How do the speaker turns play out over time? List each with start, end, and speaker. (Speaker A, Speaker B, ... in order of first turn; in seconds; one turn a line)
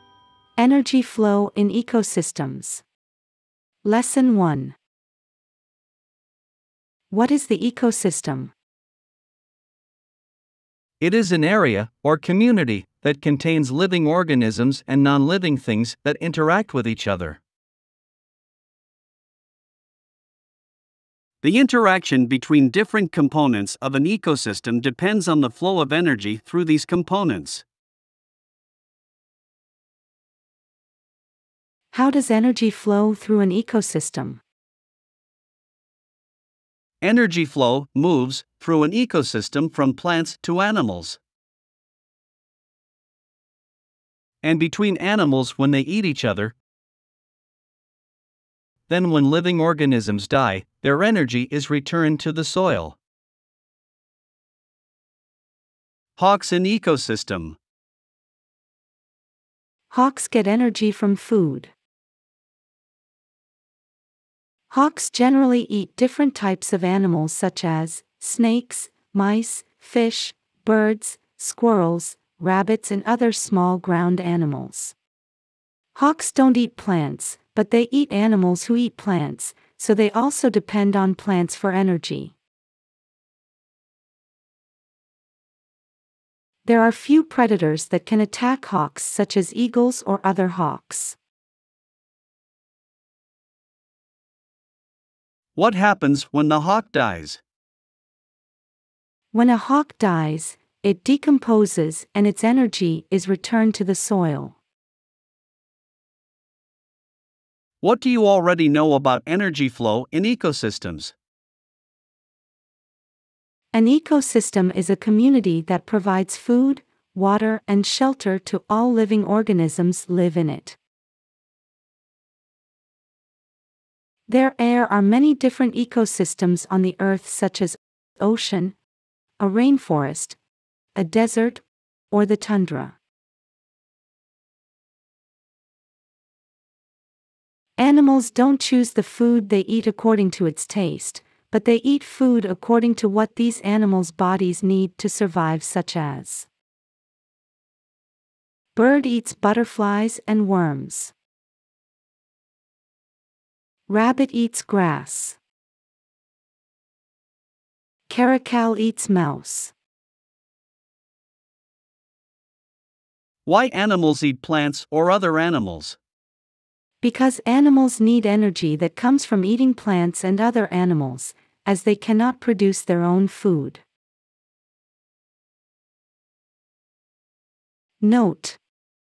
Speaker A: 0.6-2.8
Speaker A: 3.8-4.8
Speaker A: 7.1-8.5
Speaker B: 11.0-17.4
Speaker B: 21.4-27.6
Speaker A: 31.9-34.4
Speaker B: 37.0-41.2
Speaker B: 44.4-46.5
Speaker B: 48.9-53.0
Speaker B: 56.2-57.6
Speaker A: 59.9-61.7
Speaker A: 64.7-74.9
Speaker A: 75.9-82.3
Speaker A: 86.6-91.2
Speaker B: 95.5-97.4
Speaker A: 99.3-104.6
Speaker B: 107.8-111.1
Speaker A: 113.7-120.8
Speaker A: 124.3-128.8
Speaker A: 129.4-130.4
Speaker A: 130.9-132.9
Speaker A: 137.8-146.5
Speaker A: 148.7-151.1
Speaker A: 153.9-155.4
Speaker A: 158.1-159.7
Speaker B: 163.4-166.0
Speaker A: 167.0-173.8
Speaker A: 178.0-178.6